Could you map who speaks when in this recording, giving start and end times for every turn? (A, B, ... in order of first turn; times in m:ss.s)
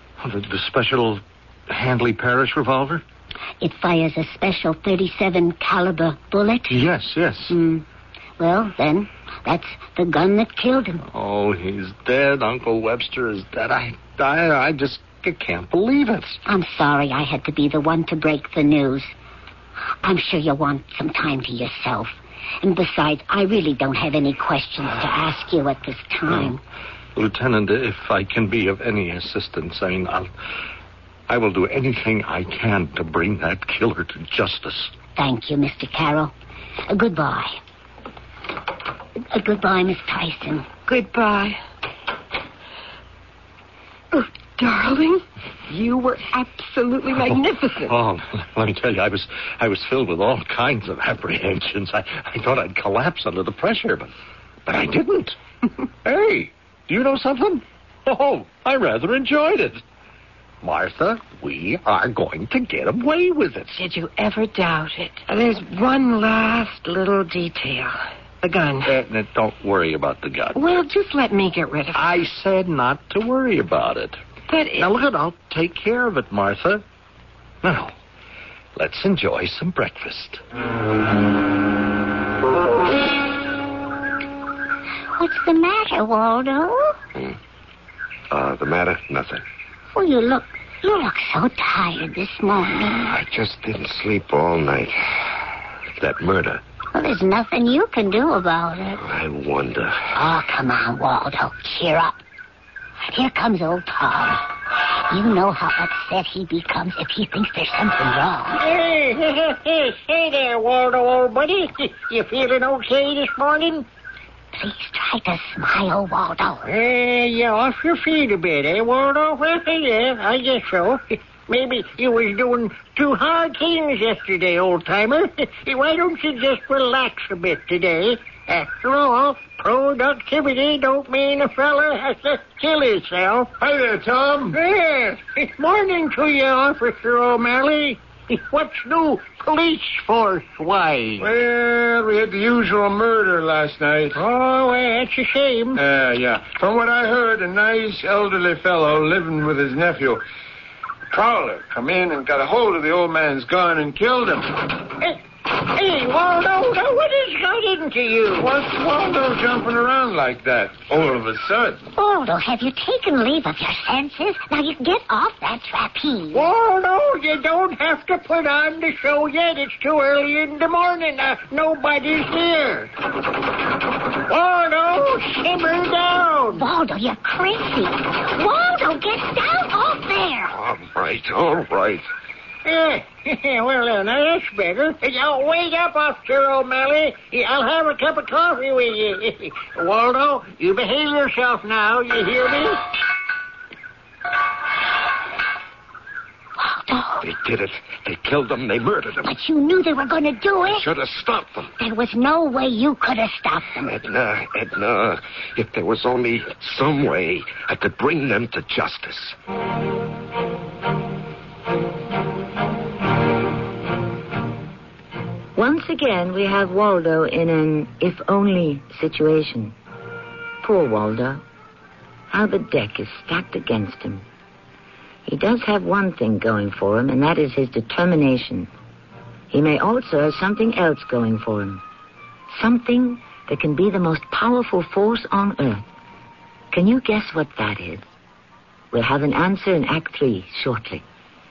0:00.2-0:03.0 A
0:03.6-0:06.9 B
0:06.7-0:07.6 A
0:07.5-0:07.8 B
0:08.4-0:11.0 B
0:11.1-0:16.4 A
0:16.5-0:19.1 B
0:20.0-0:26.6 B
0:27.2-0:30.3 A
0:31.3-0:35.0 A
0:35.2-0:36.3 B
0:36.9-0:37.6 B
0:39.3-0:40.8 B
0:40.8-0:41.6 C
0:44.1-0:48.0 C
0:47.2-0:54.1 A
0:54.7-0:55.4 A
0:56.0-0:59.8 A
1:00.6-1:03.8 A
1:03.8-1:08.9 C
1:08.8-1:10.7 A
1:10.6-1:12.0 C
1:11.9-1:14.2 A
1:14.5-1:14.9 C
1:14.8-1:16.8 A
1:17.6-1:17.9 A
1:18.8-1:20.4 A
1:25.2-1:27.0 B
1:28.3-1:29.4 D
1:29.9-1:33.1 B
1:33.0-1:35.4 D
1:36.0-1:36.6 D
1:37.0-1:39.0 B
1:39.0-1:40.0 D
1:40.2-1:42.2 B
1:43.1-1:44.5 B
1:45.1-1:48.6 B
1:48.6-1:53.9 E
1:54.6-1:56.6 B
1:56.6-2:13.6 E
2:13.6-2:14.6 F
2:14.5-2:21.3 E
2:21.2-2:24.2 F
2:24.2-2:25.8 E
2:25.8-2:30.2 F
2:31.1-2:34.5 F
2:35.0-2:38.5 E
2:38.4-2:41.8 F
2:42.0-2:46.5 B
2:46.3-2:52.9 E
2:54.3-2:56.6 E
2:56.5-3:00.5 B
3:00.5-3:02.1 D
3:02.6-3:12.8 E
3:16.6-3:17.3 B
3:17.2-3:19.4 D
3:19.2-3:20.9 B
3:20.7-3:21.7 D
3:21.8-3:24.0 B
3:23.8-3:29.4 D
3:35.6-3:39.8 G
3:40.6-3:41.4 G
3:42.3-3:44.2 G
3:45.3-3:48.7 G
3:49.5-3:51.8 G
3:52.5-3:55.8 G
3:56.7-3:58.0 G
3:58.9-4:01.0 G